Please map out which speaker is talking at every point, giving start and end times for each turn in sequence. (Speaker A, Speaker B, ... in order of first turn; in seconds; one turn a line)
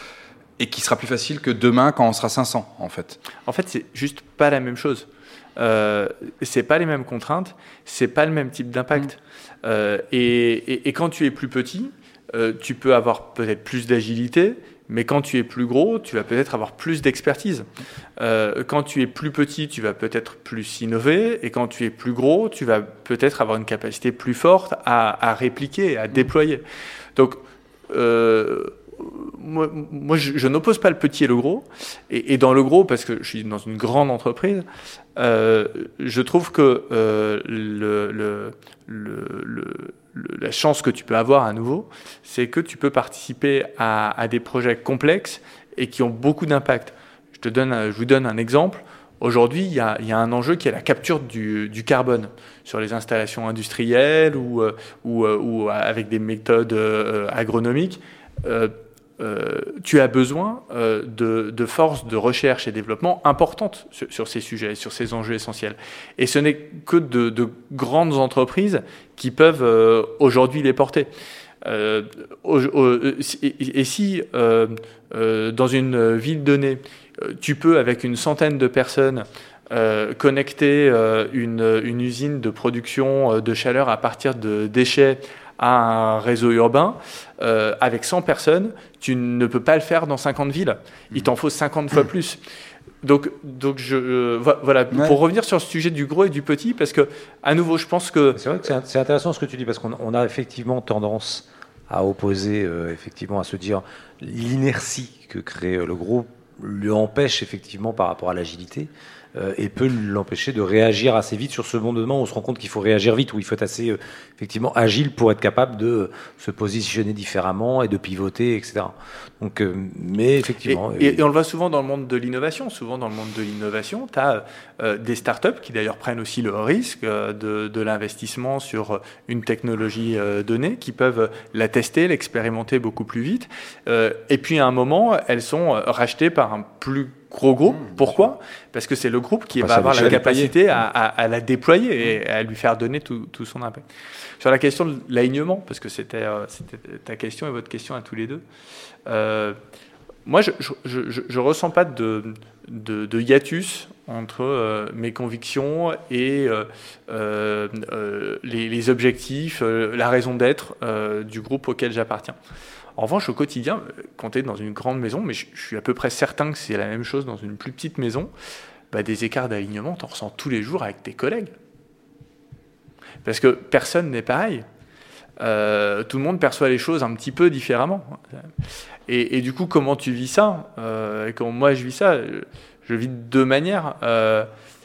Speaker A: 0.6-3.2
Speaker B: 3.4-26.6
Speaker B: 27.1-71.1
Speaker B: 71.6-92.4
Speaker B: 93.0-98.4
Speaker A: 94.9-95.2
Speaker C: 98.3-121.2
Speaker B: 120.7-143.8
Speaker A: 137.8-138.2
Speaker C: 139.6-140.4
Speaker A: 139.7-140.5
Speaker B: 144.4-148.4
Speaker B: 149.1-149.6
Speaker B: 150.3-162.4
Speaker B: 163.0-168.3
Speaker B: 168.9-171.5
Speaker B: 173.2-174.7
Speaker B: 175.4-178.5
Speaker B: 179.1-184.5